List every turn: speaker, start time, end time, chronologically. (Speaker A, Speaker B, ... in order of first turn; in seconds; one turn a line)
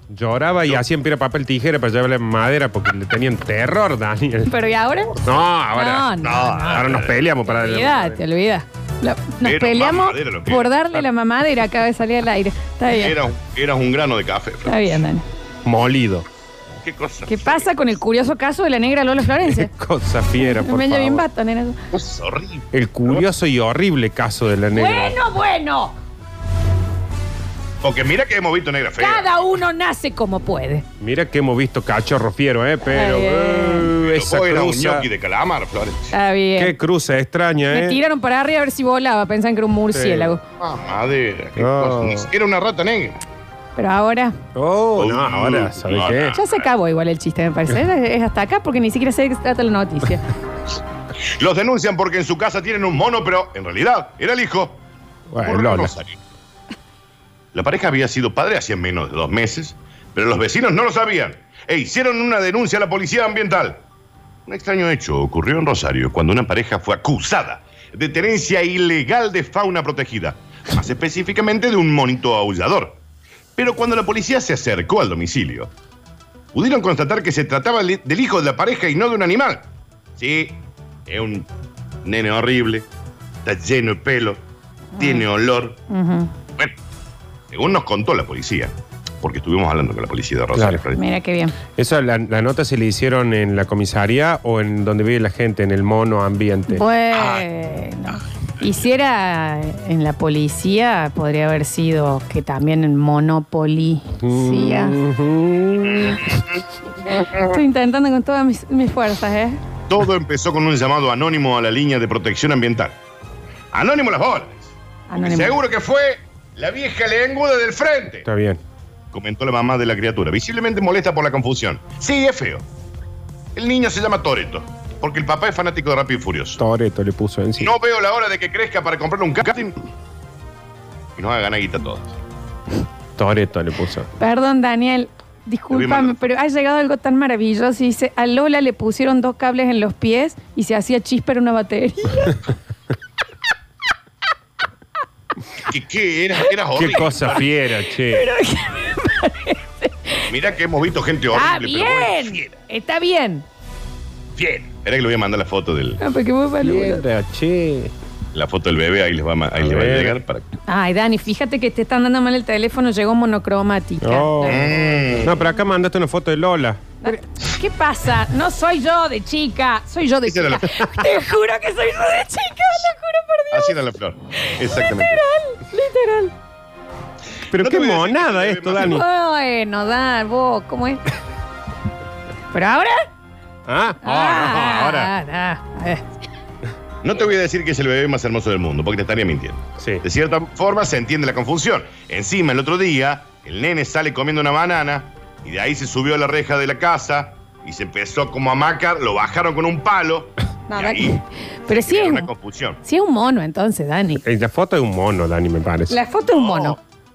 Speaker A: 0.1-4.5
Speaker B: 4.5-13.2
Speaker A: 5.2-8.2
Speaker C: 6.2-7.2
Speaker C: 9.4-10.7
Speaker C: 12.9-15.0
Speaker B: 14.7-15.2
Speaker A: 15.6-16.2
Speaker C: 16.8-17.7
Speaker B: 17.2-19.7
Speaker A: 19.4-21.2
Speaker B: 20.4-21.8
Speaker C: 21.9-22.6
Speaker A: 22.7-25.2
Speaker B: 24.7-25.9
Speaker C: 27.8-29.4
Speaker B: 29.0-30.8
Speaker A: 31.0-35.0
Speaker B: 32.8-33.9
Speaker C: 34.0-36.1
Speaker B: 36.1-36.7
Speaker A: 36.6-38.0
Speaker B: 37.7-40.4
Speaker A: 39.9-40.4
Speaker C: 40.6-43.2
Speaker A: 41.5-42.3
Speaker B: 43.8-44.4
Speaker A: 44.5-46.4
Speaker C: 45.0-46.7
Speaker B: 46.3-50.2
Speaker C: 51.4-54.8
Speaker A: 55.3-55.9
Speaker C: 55.4-56.2
Speaker C: 57.5-63.8
Speaker C: 64.5-73.0
Speaker C: 73.5-75.7
Speaker C: 76.5-79.7
Speaker C: 80.2-81.5
Speaker C: 82.0-82.8
Speaker C: 83.4-84.4
Speaker B: 85.0-85.2
Speaker C: 85.0-85.8
Speaker B: 85.9-86.3
Speaker C: 87.5-91.0
Speaker A: 90.5-90.8
Speaker B: 90.9-91.5
Speaker A: 91.8-96.8
Speaker B: 96.7-105.0
Speaker A: 104.2-106.2
Speaker C: 105.8-107.5
Speaker B: 107.4-109.6
Speaker C: 109.9-113.0
Speaker C: 113.7-118.2
Speaker B: 115.1-115.6
Speaker A: 118.2-118.6
Speaker C: 119.1-122.7
Speaker C: 123.5-126.6
Speaker A: 126.6-127.7
Speaker C: 127.6-129.8
Speaker C: 131.2-132.1
Speaker A: 133.2-134.1
Speaker B: 134.2-142.4
Speaker C: 135.7-136.2
Speaker C: 145.7-147.4
Speaker A: 146.7-148.3
Speaker B: 148.1-150.3
Speaker C: 150.2-152.5
Speaker B: 151.3-153.4
Speaker C: 154.4-156.0
Speaker B: 156.0-157.0
Speaker A: 156.6-157.9
Speaker C: 158.3-160.4
Speaker A: 159.6-160.2
Speaker B: 160.7-165.0
Speaker A: 164.0-164.7
Speaker C: 164.4-165.3
Speaker A: 165.2-167.2
Speaker B: 167.0-173.7
Speaker C: 170.2-170.6
Speaker C: 173.5-175.2
Speaker B: 174.3-176.3
Speaker A: 177.5-179.0
Speaker C: 177.6-179.0
Speaker B: 178.8-181.0
Speaker B: 182.5-183.0
Speaker A: 183.7-185.1
Speaker B: 184.0-186.0
Speaker C: 187.0-202.8
Speaker A: 189.8-190.0
Speaker B: 200.7-202.3
Speaker B: 202.8-204.2
Speaker A: 204.2-206.0
Speaker B: 205.9-206.8
Speaker C: 206.3-206.8